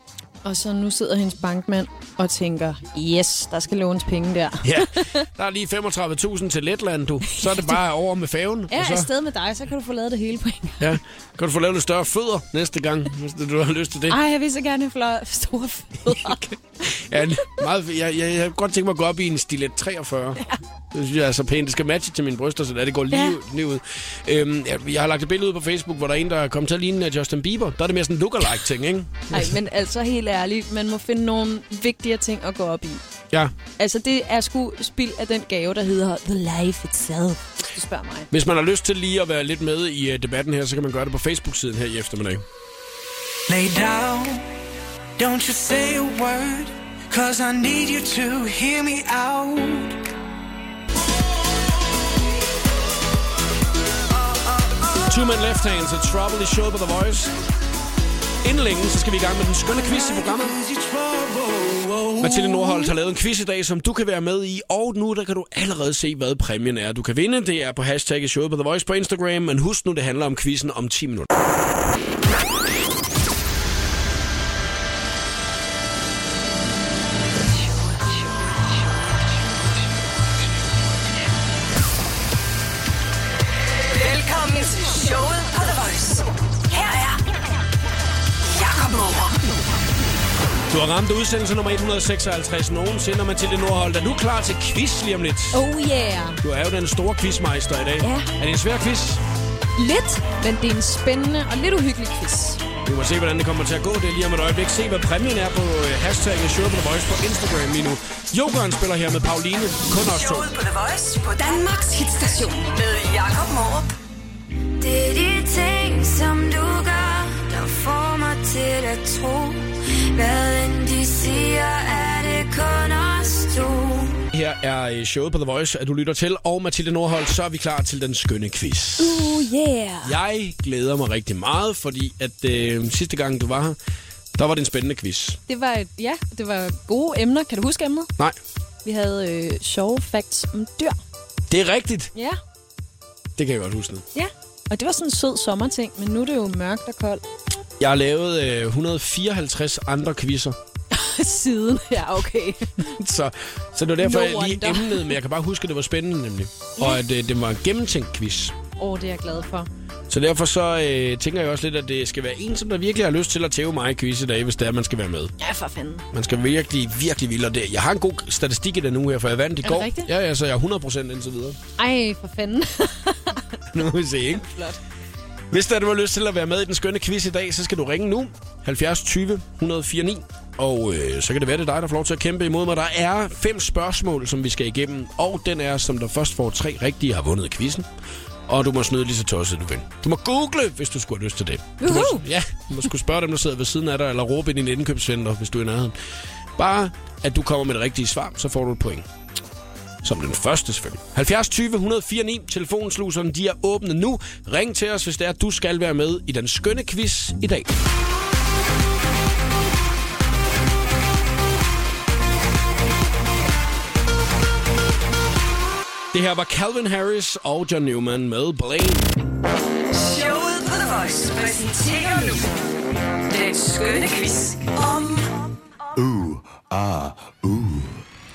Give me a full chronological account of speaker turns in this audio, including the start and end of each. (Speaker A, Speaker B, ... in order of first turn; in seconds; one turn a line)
Speaker A: 0.4-5.3
Speaker B: 4.6-9.1
Speaker A: 7.2-7.8
Speaker A: 8.7-10.9
Speaker B: 10.8-14.2
Speaker A: 14.1-16.5
Speaker B: 16.1-29.5
Speaker A: 23.1-23.4
Speaker A: 29.3-33.0
Speaker A: 33.8-38.3
Speaker B: 38.3-42.4
Speaker C: 43.5-44.5
Speaker C: 45.2-50.0
Speaker B: 55.0-57.3
Speaker B: 58.4-60.6
Speaker C: 59.7-62.1
Speaker B: 62.2-71.3
Speaker D: 83.8-87.2
Speaker D: 88.4-89.6
Speaker B: 90.7-95.6
Speaker A: 95.5-96.4
Speaker B: 96.4-99.2
Speaker A: 98.0-98.3
Speaker A: 99.8-102.6
Speaker B: 102.8-110.5
Speaker D: 110.0-113.9
Speaker E: 114.8-123.9
Speaker B: 124.3-129.4
Speaker A: 129.0-130.2
Speaker B: 130.0-133.8
Speaker B: 134.3-135.4
Speaker A: 135.5-138.1
Speaker A: 138.8-141.0
Speaker B: 141.5-142.1
Speaker B: 143.4-144.0
Speaker A: 144.1-147.2
Speaker B: 147.8-150.6
Speaker A: 150.9-152.9
Speaker B: 152.8-158.6
Speaker A: 154.0-155.2
Speaker A: 156.8-157.0
Speaker A: 158.8-159.7
Speaker B: 160.1-165.3
Speaker A: 165.4-166.0
Speaker B: 166.1-171.6
Speaker A: 169.6-170.1
Speaker A: 171.8-173.7
Speaker B: 173.7-174.4
Speaker A: 174.3-174.8
Speaker B: 175.5-187.9
Speaker B: 188.5-195.9
Speaker A: 191.8-192.2
Speaker B: 196.6-199.1
Speaker B: 200.0-207.7
Speaker B: 216.1-219.1
Speaker D: 219.9-222.5
Speaker D: 223.3-225.5
Speaker F: 226.0-228.0